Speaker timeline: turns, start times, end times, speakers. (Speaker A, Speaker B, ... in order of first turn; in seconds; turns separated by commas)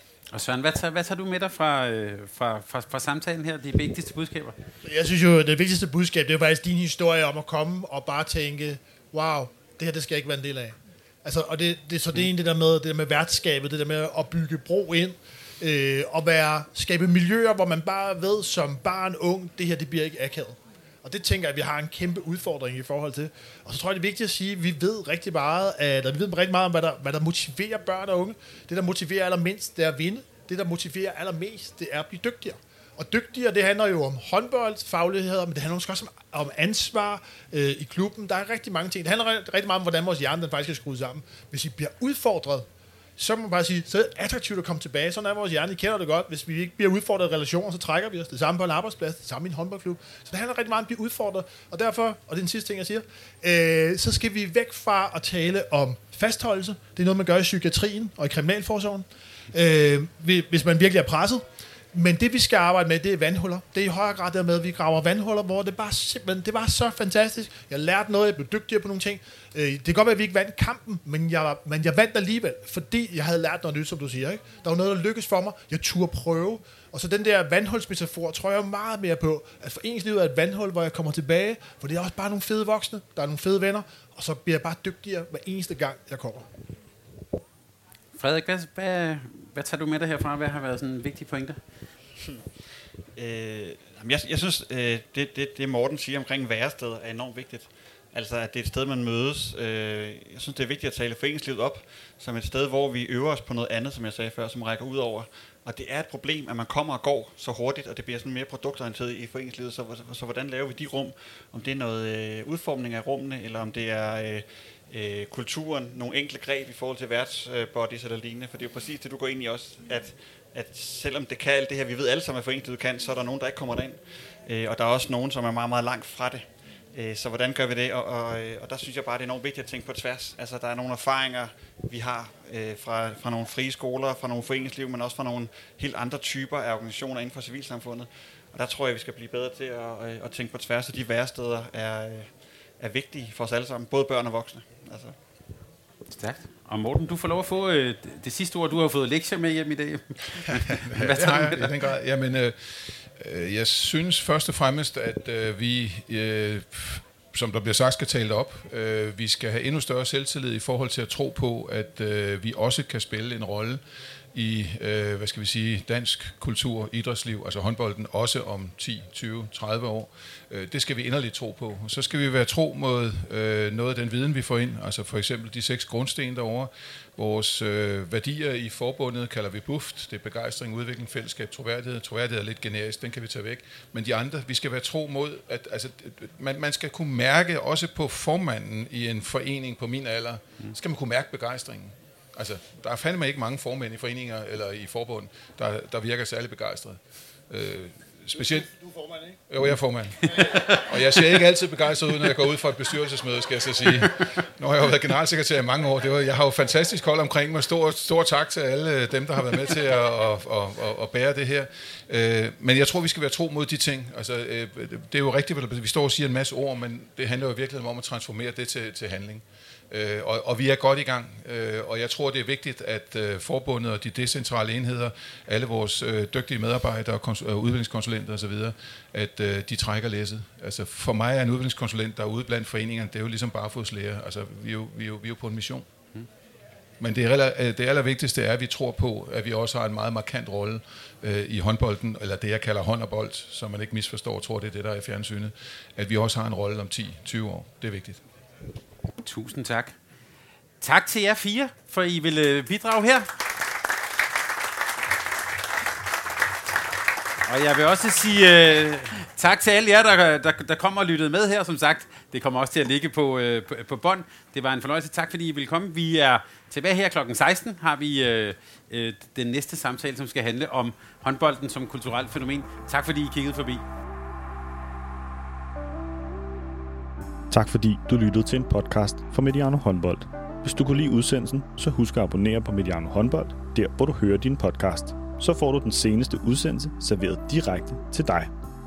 Speaker A: 0.3-4.6, Speaker B: 4.8-86.5, Speaker A: 88.2-91.6, Speaker C: 93.1-145.2, Speaker A: 146.1-151.8, Speaker D: 150.5-163.8, Speaker D: 164.3-198.7, Speaker B: 198.7-199.4, Speaker D: 199.5-235.9, Speaker A: 200.4-201.2, Speaker D: 237.0-248.2, Speaker A: 249.2-249.9, Speaker A: 250.8-253.3, Speaker A: 257.4-273.8, Speaker E: 277.5-288.5